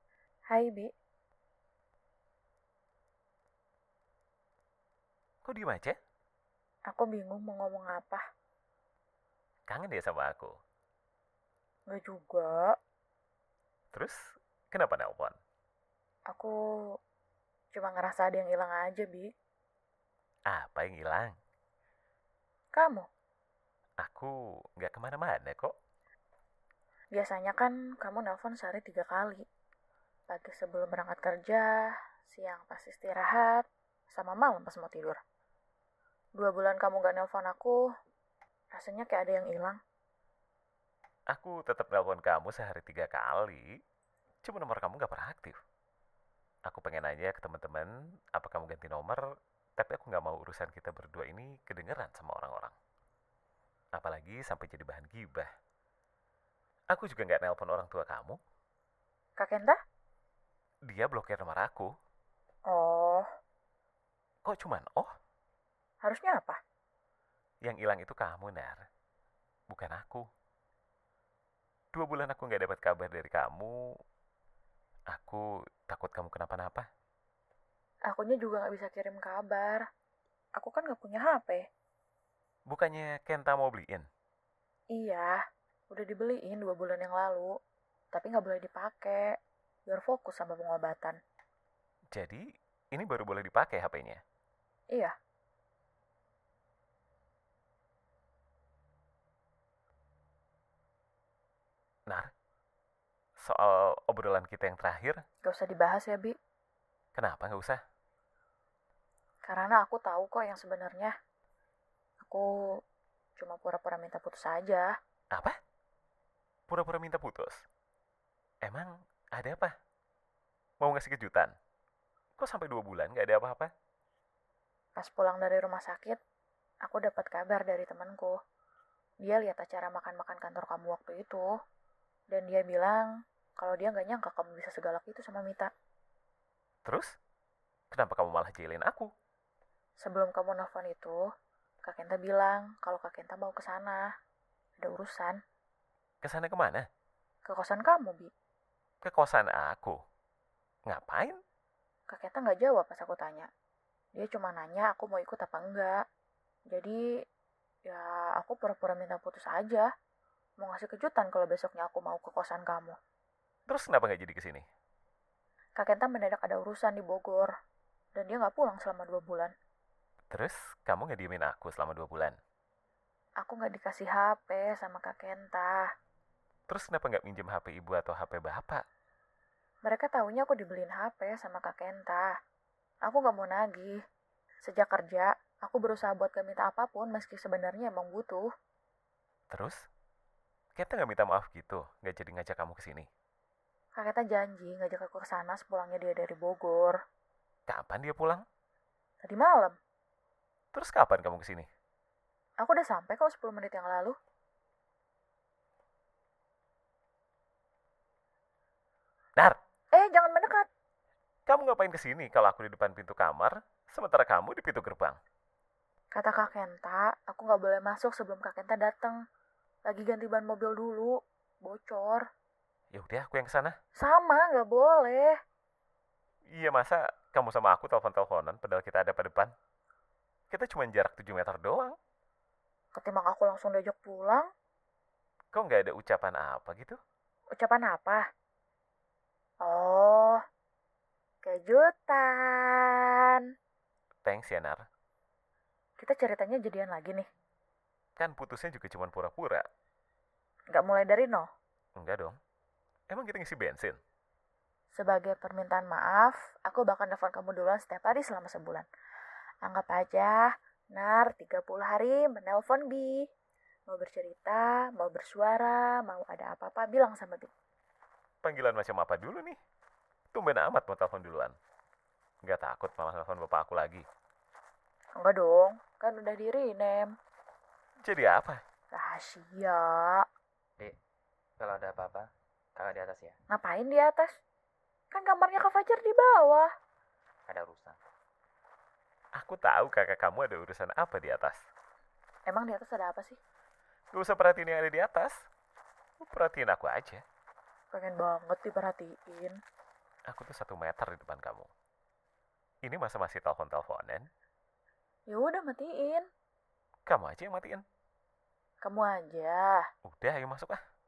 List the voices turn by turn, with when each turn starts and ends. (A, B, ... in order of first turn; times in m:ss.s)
0:00.5-0:00.9 A
0:05.4-0:06.0 B
0:06.9-0:08.2 A
0:09.7-0:10.6 B
0:11.9-0:12.7 A
0:14.7-0:15.4 B
0:17.7-0:19.3 A
0:20.5-0:21.3 B
0:22.7-0:23.1 A
0:24.0-0:25.7 B
0:27.1-0:29.4 A
0:30.3-0:31.7 A
0:32.2-0:35.2 A
0:36.4-0:37.8 A
0:38.7-0:39.8 A
0:41.3-0:43.6 B
0:44.4-0:45.6 B
0:46.7-0:49.2 B
0:49.8-0:52.7 B
0:53.9-0:55.5 B
0:56.9-0:58.4 B
0:59.4-0:59.8 A
1:00.9-1:01.9 B
1:02.7-1:03.2 A
1:04.4-1:05.1 B
1:06.0-1:06.6 A
1:07.6-1:08.8 B
1:09.7-1:10.2 B
1:11.9-1:13.8 B
1:15.1-1:16.8 B
1:18.1-1:19.8 A
1:20.6-1:21.6 A
1:22.7-1:24.1 B
1:24.9-1:25.4 A
1:25.9-1:27.5 A
1:28.1-1:29.2 A
1:29.9-1:31.2 A
1:32.1-1:32.4 B
1:32.9-1:34.2 B
1:43.4-1:45.2 B
1:45.4-1:46.3 A
1:47.2-1:47.8 B
1:49.4-1:51.1 A
1:52.2-1:52.4 A
1:53.4-1:54.9 A
1:56.7-1:57.6 B
1:58.6-1:59.7 B
2:00.8-2:01.5 B
2:02.4-2:03.7 B
2:05.0-2:06.2 A
2:06.8-2:08.4 A
2:09.2-2:11.4 A
2:12.3-2:13.0 A
2:13.6-2:15.7 A
2:16.8-2:17.1 B
2:17.9-2:19.1 B
2:20.0-2:21.2 A
2:21.8-2:24.0 A
2:24.8-2:25.4 A
2:26.2-2:26.8 B
2:27.4-2:28.3 A
2:29.0-2:30.0 B
2:30.9-2:31.4 B
2:32.1-2:33.5 A
2:34.2-2:35.9 A
2:36.7-2:37.0 A
2:37.9-2:39.8 A
2:40.6-2:42.9 A
2:43.7-2:44.6 B
2:45.8-2:47.5 A
2:48.1-2:49.5 A
2:50.3-2:52.4 B
2:53.4-2:55.8 A
2:56.7-2:58.8 B
2:59.8-3:02.3 A
3:03.0-3:04.0 A
3:04.6-3:08.5 A
3:09.5-3:09.8 B
3:10.8-3:13.1 B
3:14.0-3:17.0 A
3:17.7-3:18.4 B
3:19.2-3:19.8 A
3:20.7-3:21.7 B
3:22.6-3:24.1 A
3:29.9-3:30.6 A
3:31.5-3:35.2 B
3:36.1-3:39.2 A
3:39.8-3:42.2 A
3:42.9-3:43.7 B
3:44.0-3:45.3 A
3:46.5-3:49.5 B
3:50.5-3:51.9 B
3:52.9-3:54.5 A
3:55.5-3:57.0 B
3:57.6-3:58.2 A
3:59.6-4:00.4 A
4:01.4-4:03.4 A
4:04.2-4:04.8 B
4:06.0-4:07.2 A
4:08.2-4:09.6 B
4:10.7-4:11.5 A
4:12.0-4:12.4 B
4:13.1-4:14.0 B
4:14.9-4:18.8 A
4:19.6-4:23.2 A
4:23.9-4:27.5 A
4:28.4-4:29.6 B
4:30.3-4:31.5 B
4:32.4-4:34.0 B
4:35.2-4:37.1 A
4:38.0-4:38.6 B
4:38.9-4:40.2 A
4:41.6-4:43.3 C
4:43.5-4:44.4 A
4:45.1-4:46.7 A
4:47.5-4:48.0 C
4:49.4-4:51.6 B
4:52.5-4:53.4 A
4:54.1-4:55.5 B
4:56.2-4:57.2 B
4:57.9-4:59.6 A
5:00.3-5:01.7 B
5:02.8-5:04.3 B
5:05.3-5:06.2 A
5:07.1-5:07.8 B
5:08.8-5:09.8 A
5:10.0-5:10.8 B